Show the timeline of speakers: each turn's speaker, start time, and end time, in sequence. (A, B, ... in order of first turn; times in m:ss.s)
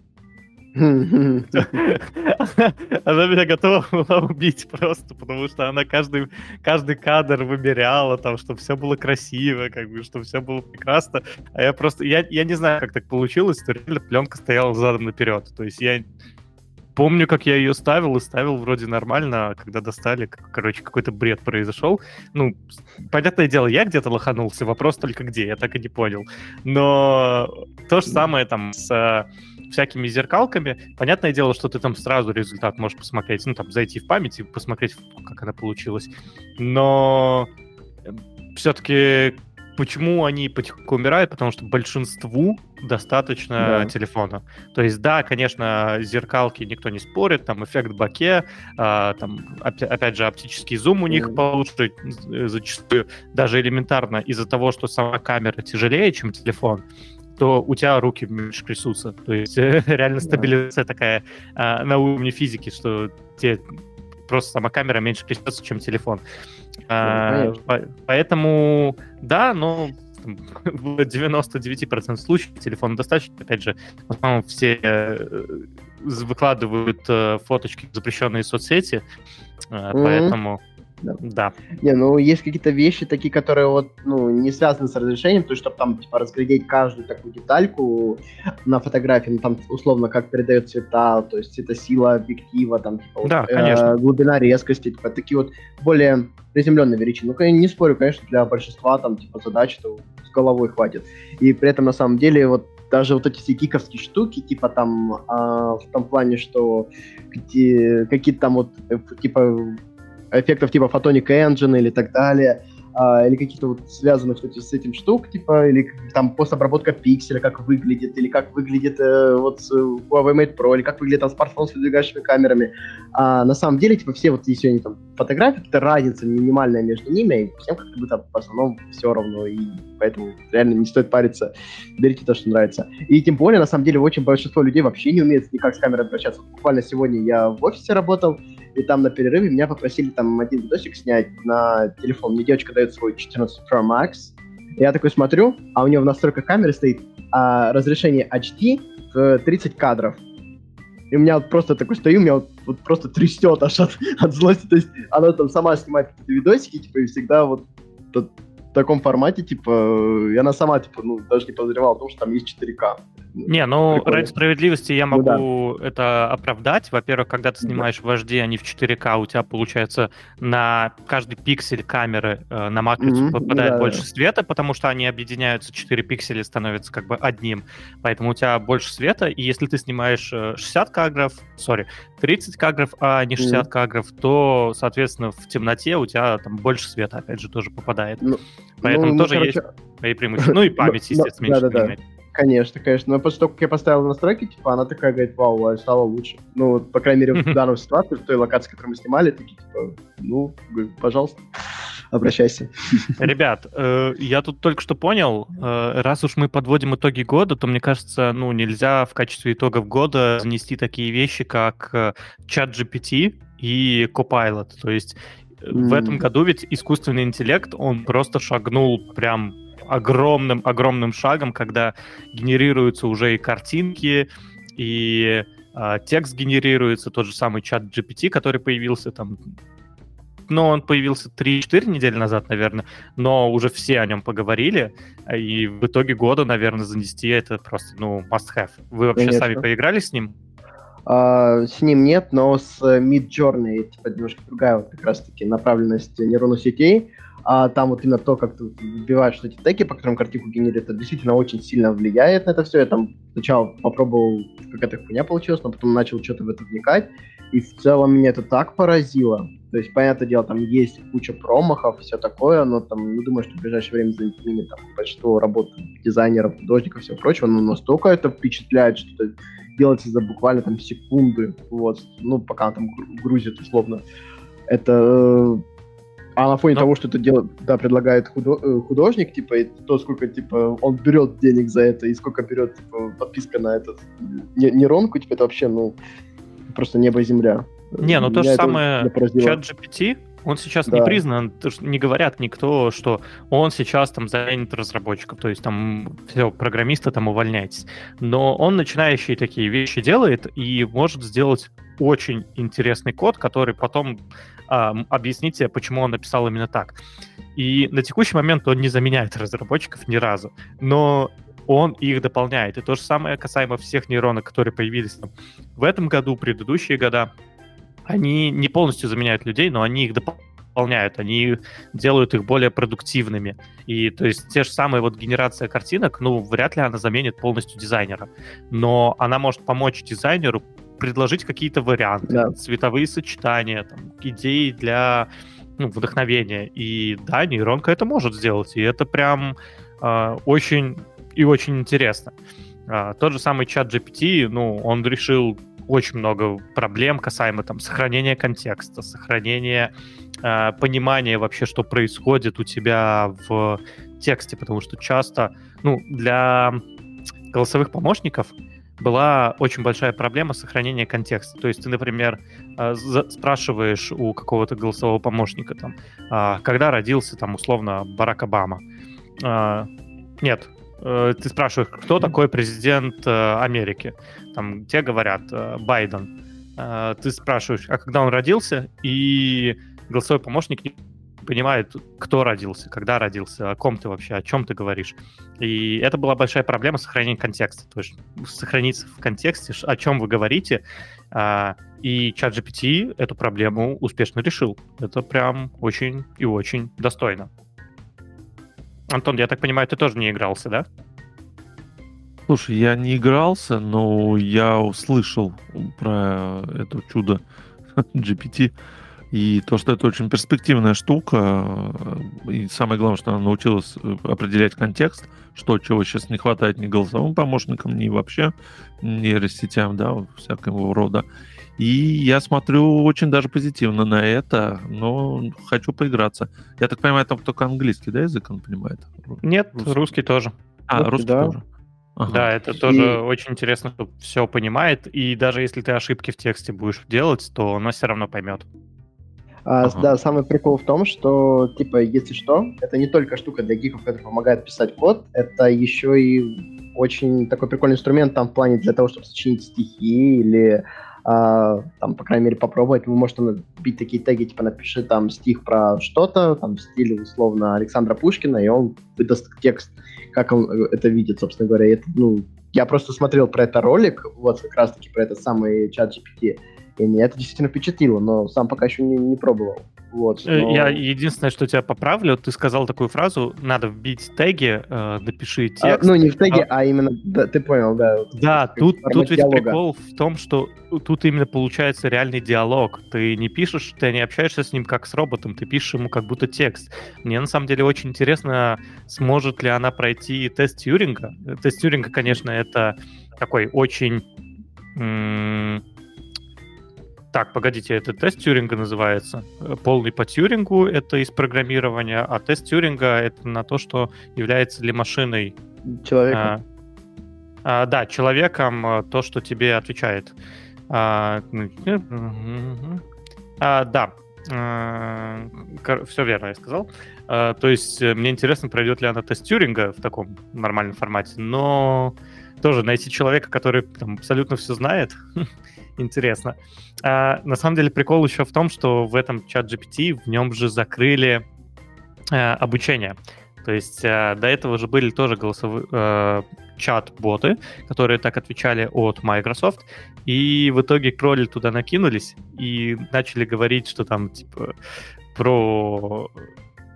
0:00.7-0:01.7 A
0:01.5-0:16.1 B
0:16.9-0:37.5 B
0:38.1-0:56.8 B
0:43.6-0:43.9 A
0:51.1-0:51.4 A
0:57.4-1:03.6 B
1:04.3-1:06.2 B
1:06.9-1:19.0 B
1:07.0-1:07.6 A
1:19.7-1:20.6 B
1:19.9-1:20.4 A
1:21.2-1:21.5 B
1:21.8-1:49.8 A
1:33.2-1:33.9 B
1:50.3-2:30.2 A
2:31.1-2:44.3 A
2:43.5-3:08.2 B
2:45.1-2:45.4 A
2:53.0-2:54.0 A
3:03.4-3:03.7 A
3:08.2-3:09.6 A
3:08.8-3:12.0 B
3:10.5-3:21.4 A
3:22.1-3:23.1 A
3:23.2-3:49.4 B
3:35.7-3:36.2 A
3:50.5-4:00.3 B
3:59.1-3:59.6 A
4:01.1-4:34.0 A
4:34.7-4:35.6 A
4:36.4-4:46.0 A
4:46.7-4:49.6 A
4:48.0-5:07.0 B
4:50.9-4:51.2 A
5:07.6-5:17.3 B
5:18.1-5:42.3 B
5:32.3-5:32.5 A
5:42.9-5:49.9 B
5:50.4-5:56.8 B
5:57.5-6:08.8 B
6:09.4-6:09.9 B
6:10.4-6:37.5 B
6:39.1-6:40.8 B
6:42.5-6:47.4 C
6:48.1-6:48.7 C
6:49.3-7:01.2 C
7:01.8-7:10.0 C
7:09.4-7:10.5 B
7:10.9-7:11.6 C
7:11.0-7:11.5 A
7:12.2-7:12.5 C
7:12.3-7:18.6 B
7:12.8-7:13.2 A
7:19.7-7:51.0 A
7:19.8-7:20.1 C
7:50.4-7:56.6 B
7:55.8-7:59.8 A
7:58.3-8:14.2 B
8:15.0-8:15.8 B
8:17.3-8:25.6 B
8:25.9-8:26.5 A
8:26.3-8:26.6 B
8:27.6-8:30.3 B
8:30.9-8:33.0 B
8:33.6-8:45.2 B
8:46.0-8:51.4 B
8:52.3-9:04.7 B
9:05.3-9:06.3 B